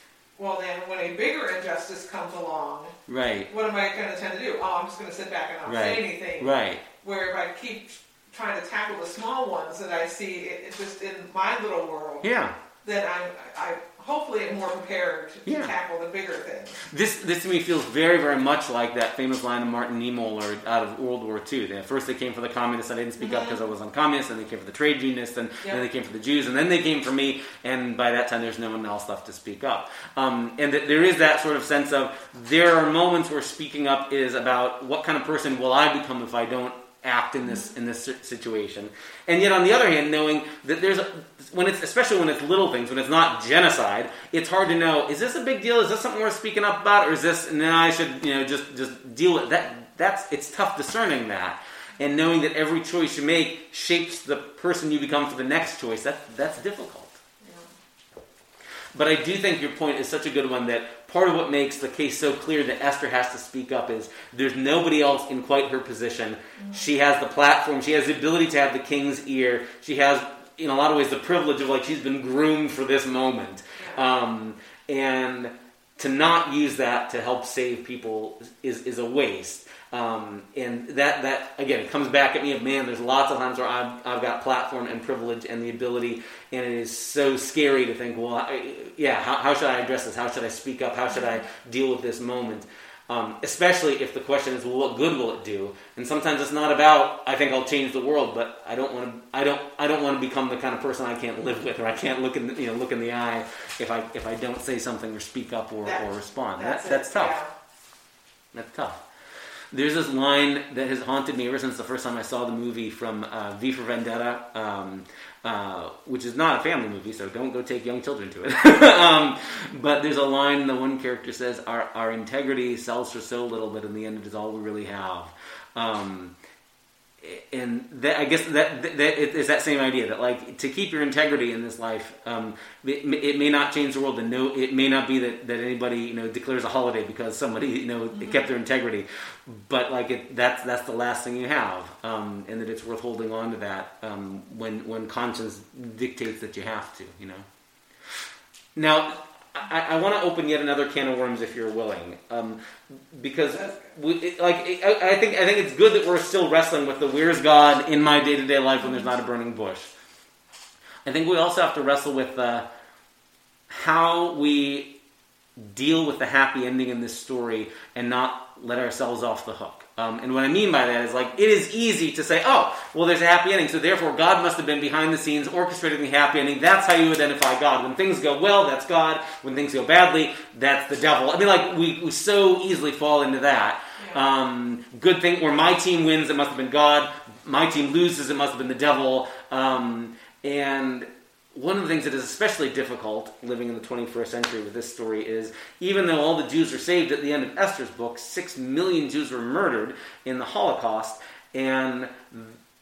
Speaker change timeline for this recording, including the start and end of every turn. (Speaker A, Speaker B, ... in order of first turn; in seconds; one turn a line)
Speaker A: 0.4-3.0
Speaker B: 3.1-3.5
Speaker A: 3.5-12.3
Speaker B: 5.7-6.8
Speaker B: 12.2-12.6
Speaker A: 12.8-16.8
Speaker B: 15.4-15.7
Speaker B: 16.9-57.2
Speaker A: 23.2-23.6
Speaker A: 57.4-57.7
Speaker B: 59.0-107.4
Speaker A: 66.6-66.9
Speaker A: 73.8-74.0
Speaker A: 91.1-91.4
Speaker A: 105.8-107.5
Speaker B: 108.5-109.0
Speaker B: 109.7-126.3
Speaker B: 127.2-147.5
Speaker A: 138.1-138.4
Speaker B: 148.8-159.9
Speaker A: 153.5-153.9
Speaker B: 161.1-162.7
Speaker B: 163.7-164.9
Speaker B: 165.6-202.6
Speaker A: 184.0-184.2